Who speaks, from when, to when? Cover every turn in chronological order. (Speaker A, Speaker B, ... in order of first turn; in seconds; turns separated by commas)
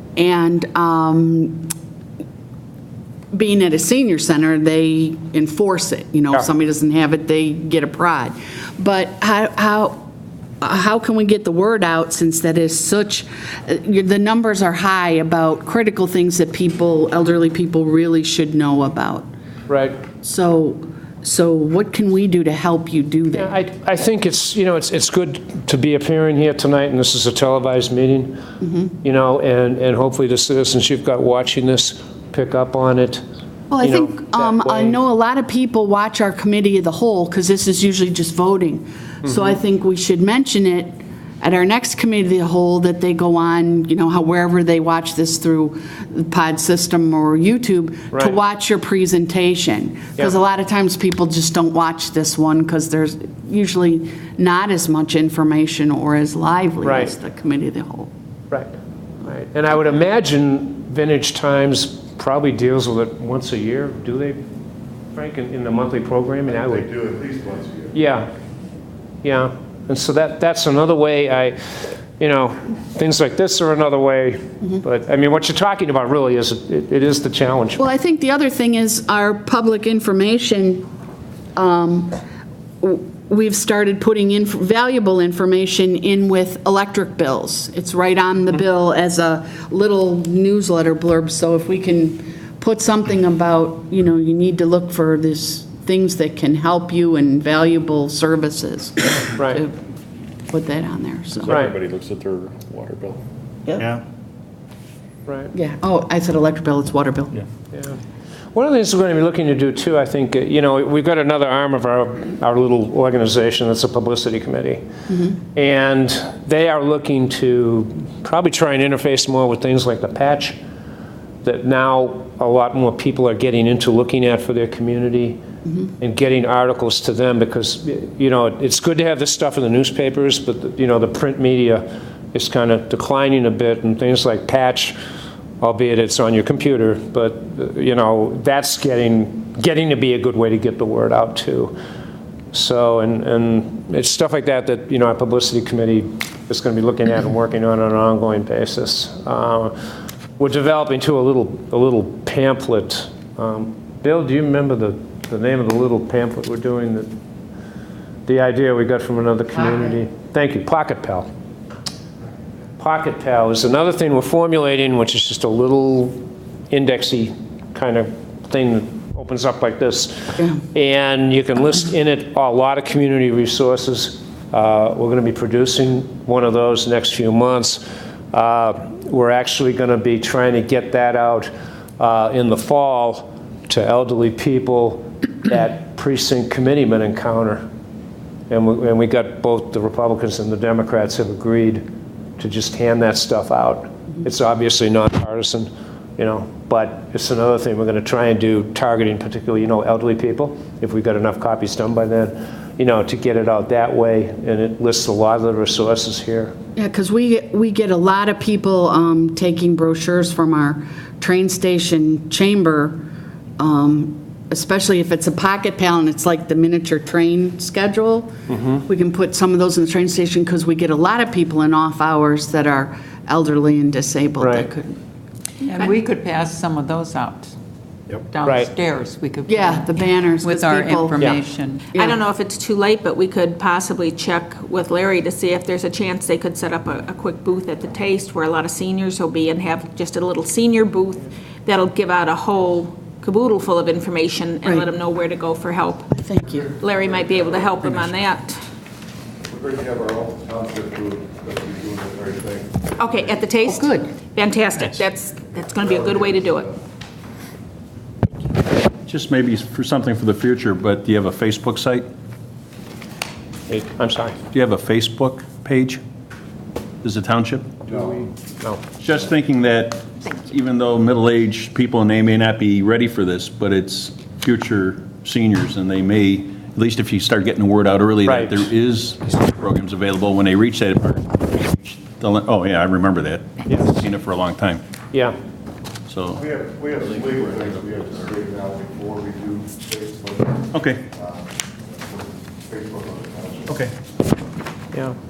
Speaker A: 0.1-1.7, Speaker A: 3.3-10.0, Speaker A: 10.6-19.3, Speaker B: 19.7-20.0, Speaker A: 20.1-23.5, Speaker B: 23.3-28.4, Speaker A: 28.6-28.9, Speaker B: 29.0-33.2, Speaker A: 33.7-58.1, Speaker B: 33.8-35.0, Speaker B: 48.1-48.4, Speaker B: 56.8-57.1, Speaker B: 59.2-64.4, Speaker B: 65.1-66.9, Speaker C: 66.7-67.9, Speaker B: 67.9-68.3, Speaker B: 69.2-71.6, Speaker B: 72.2-77.8, Speaker A: 77.8-80.9, Speaker A: 81.5-82.2, Speaker A: 82.8-99.7, Speaker A: 100.5-101.6, Speaker D: 101.4-103.2, Speaker B: 101.5-101.7, Speaker D: 103.7-104.0, Speaker B: 105.3-105.5, Speaker A: 105.5-107.4, Speaker B: 108.5-114.8, Speaker A: 115.1-115.4, Speaker B: 115.4-120.5, Speaker B: 121.4-125.4, Speaker B: 126.0-134.9, Speaker B: 135.6-141.7, Speaker B: 142.5-149.7, Speaker B: 150.4-157.1, Speaker B: 158.2-161.3, Speaker B: 162.8-187.6, Speaker B: 188.5-191.8, Speaker B: 192.4-206.5, Speaker A: 206.8-213.0, Speaker A: 213.6-218.3, Speaker B: 218.5-218.8, Speaker A: 218.8-225.0, Speaker B: 224.4-224.7, Speaker E: 225.6-227.5, Speaker E: 228.1-231.9, Speaker B: 228.4-228.7, Speaker A: 229.4-231.2, Speaker F: 232.0-246.1, Speaker A: 246.1-246.8, Speaker F: 246.6-248.6, Speaker C: 249.5-253.0, Speaker F: 253.0-256.7, Speaker A: 253.6-254.1, Speaker D: 259.0-262.1, Speaker B: 263.7-264.4, Speaker D: 264.5-266.0, Speaker D: 267.0-267.9, Speaker B: 267.9-268.8, Speaker D: 269.0-284.8, Speaker B: 278.2-278.6, Speaker D: 286.1-286.4, Speaker C: 286.4-290.6, Speaker D: 287.0-288.4, Speaker D: 290.7-291.1, Speaker C: 292.1-293.6, Speaker D: 293.7-293.9